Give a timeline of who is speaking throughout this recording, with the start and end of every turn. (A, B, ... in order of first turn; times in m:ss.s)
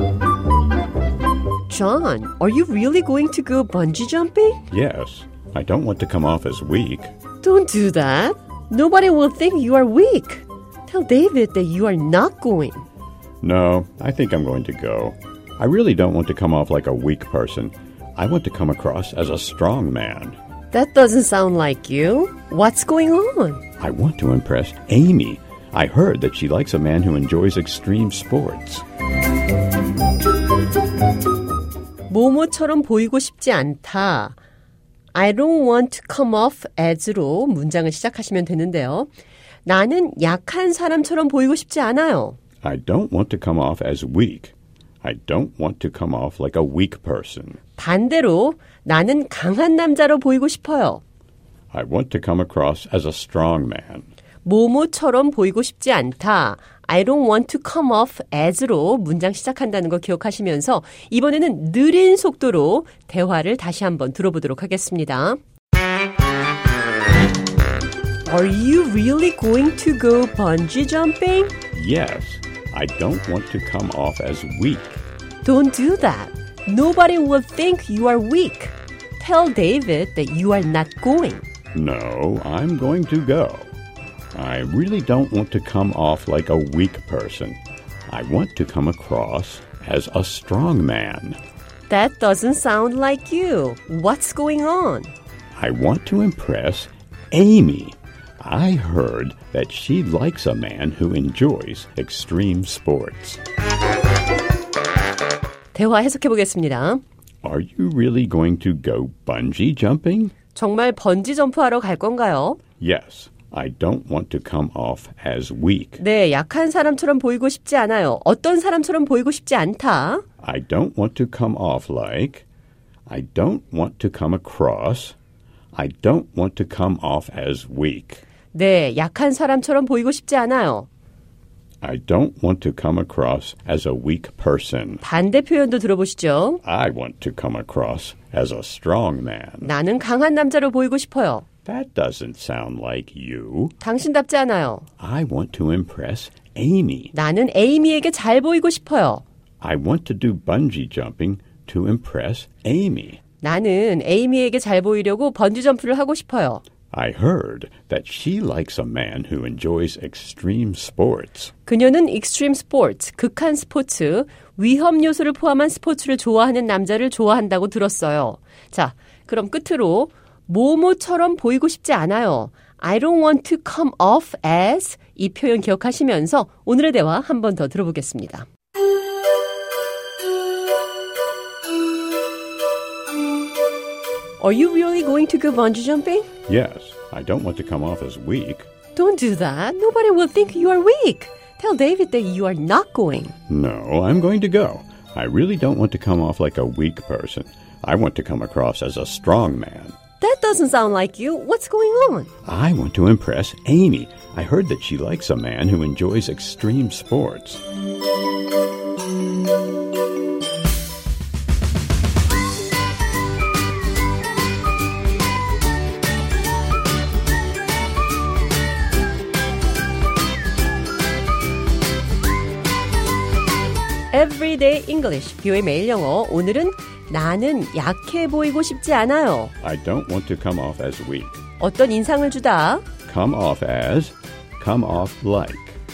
0:01.7-0:04.6 A
0:04.7-0:07.1 B
0:07.4-0:12.9 A
0:13.4-0:20.4 B
0:20.7-0:23.6 A
0:23.8-0:28.8 B
0:32.1-0:34.4 A
0:35.1-0:39.1 A
0:39.7-0:42.4 A
0:42.6-0:47.6 B
0:47.8-0:51.0 A
0:51.7-0:54.1 B
0:54.4-1:05.4 A
1:08.3-1:11.5 A
1:11.7-1:15.0 B
1:15.4-1:21.4 A
1:21.7-1:23.7 B
1:24.3-1:31.4 B
1:31.9-1:35.1 A
1:35.6-1:43.4 B
1:45.7-1:47.0 A
1:47.4-1:50.4 B
1:50.5-1:52.6 A
1:52.8-1:56.0 B
1:56.0-2:00.2 A
2:00.4-2:02.5 B
2:03.1-2:05.2 B
2:05.7-2:08.2 B
2:08.5-2:10.9 A
2:11.8-2:15.0 B
2:15.0-2:16.6 A
2:16.6-2:19.7 B
2:19.6-2:21.5 A
2:21.7-2:23.8 B
2:23.8-2:24.9 A
2:25.0-2:27.1 B
2:27.1-2:29.2 A
2:29.6-2:33.2 B
2:33.4-2:36.6 A
2:36.9-2:41.5 B
2:41.7-2:58.5 A
3:04.4-3:06.3 A
3:06.5-3:08.7 B
3:09.0-3:13.3 A
3:13.5-3:20.0 B
3:20.2-3:22.3 A
3:22.4-3:27.6 B
3:44.1-3:49.5 A
3:49.6-3:51.4 B
3:51.6-3:52.9 A
3:53.1-3:55.8 B